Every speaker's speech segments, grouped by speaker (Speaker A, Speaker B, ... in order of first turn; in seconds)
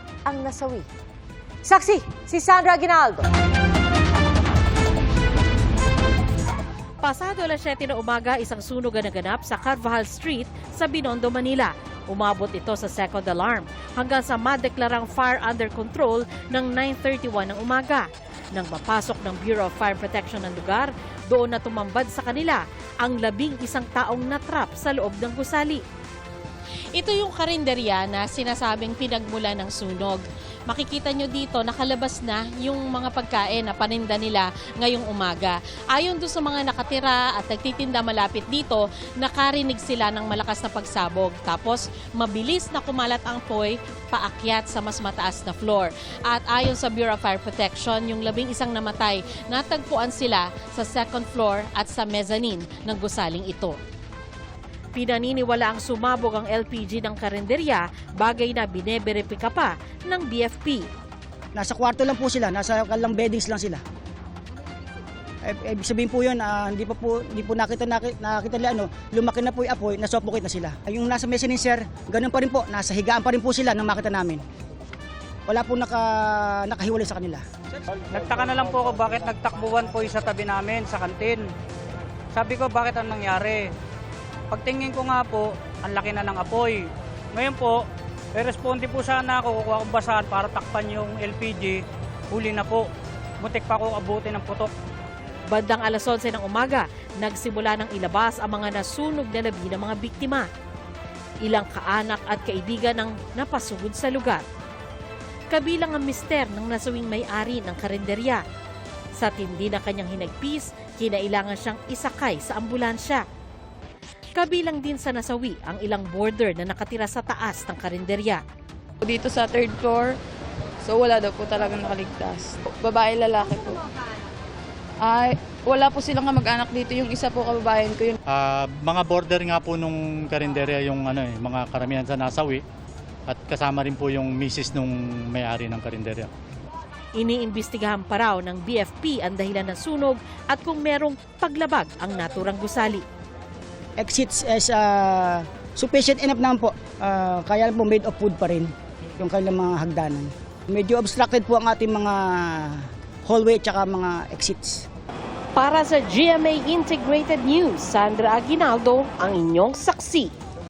Speaker A: 0.2-0.9, 1.6-3.3
Speaker B: 7.0-25.8, 26.9-53.8, 54.9-60.9, 95.5-100.5, 101.4-104.4, 105.5-108.4, 109.1-113.2, 114.3-118.4, 137.2-143.0, 155.5-160.3
Speaker C: 61.5-63.8, 65.4-74.4, 75.5-77.4, 144.0-154.8
Speaker D: 78.1-81.4, 82.3-83.7, 84.5-86.8, 87.3-87.8, 88.4-91.8, 92.3-92.9, 93.4-94.7
Speaker E: 119.0-120.2, 120.8-123.8, 125.0-128.2
Speaker F: 128.3-132.6, 133.3-136.3